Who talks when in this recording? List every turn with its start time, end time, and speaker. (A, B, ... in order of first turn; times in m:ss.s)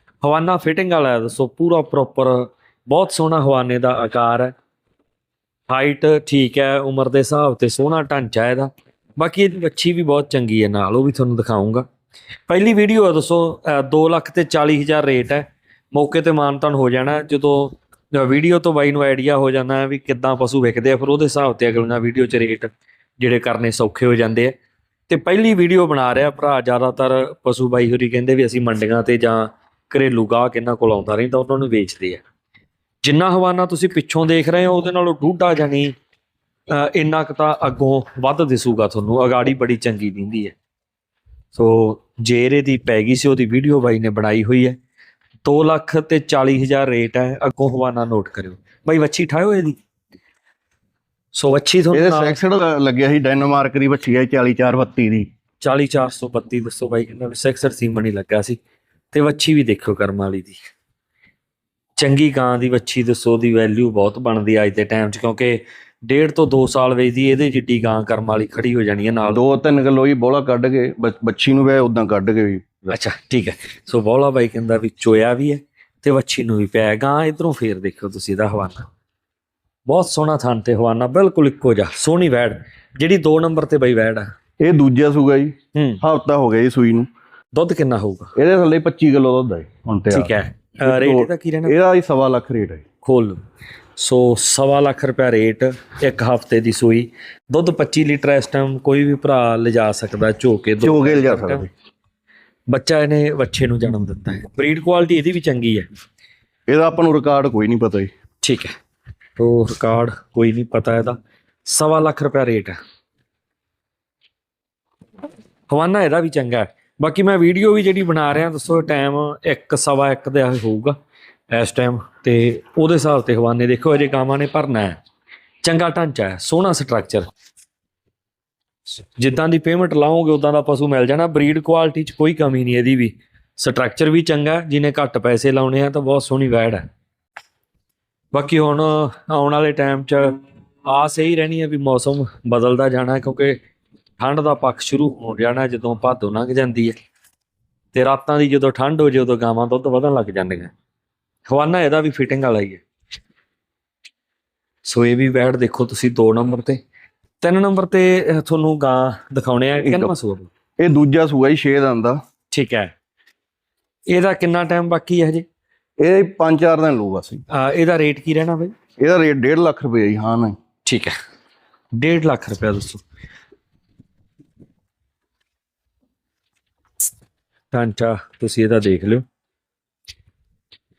0:00.2-0:04.5 A
0:05.7-0:11.9 A
0:12.5-0:24.5 A
0:25.1-0:32.2 A
0:33.0-0:35.9 A
0:36.7-0:40.5 A
0:41.5-0:44.8 A
0:45.4-0:49.8 A
0:51.3-0:52.4 A
0:51.9-0:55.3 B
0:55.6-0:58.6 A
0:59.1-1:00.6 A
1:02.0-1:09.4 A
1:09.3-1:12.9 B
1:12.9-1:18.9 A
1:19.8-1:24.3 A
1:24.6-1:27.1 B
1:25.7-1:26.0 A
1:27.5-1:28.3 A
1:28.4-1:32.8 B
1:30.1-1:31.7 A
1:33.0-1:33.4 A
1:34.0-1:41.7 A
1:40.8-1:41.7 B
1:42.7-1:45.8 A
1:46.7-1:48.1 B
1:48.4-1:48.7 A
1:49.4-1:52.8 A
1:55.7-2:01.0 A
2:01.5-2:05.0 A
2:05.6-2:07.3 A
2:09.2-2:16.8 A
2:18.3-2:23.6 A
2:24.2-2:26.9 A
2:27.9-2:30.7 A
2:31.5-2:32.8 A
2:34.8-2:36.8 A
2:37.4-2:40.5 A
2:39.8-2:40.1 B
2:40.8-2:42.2 B
2:42.5-2:42.9 A
2:44.1-2:45.4 A
2:46.0-2:47.4 B
2:47.5-2:48.7 A
2:49.0-2:50.6 B
2:50.8-2:51.1 A
2:51.9-2:53.0 A
2:57.7-2:59.2 A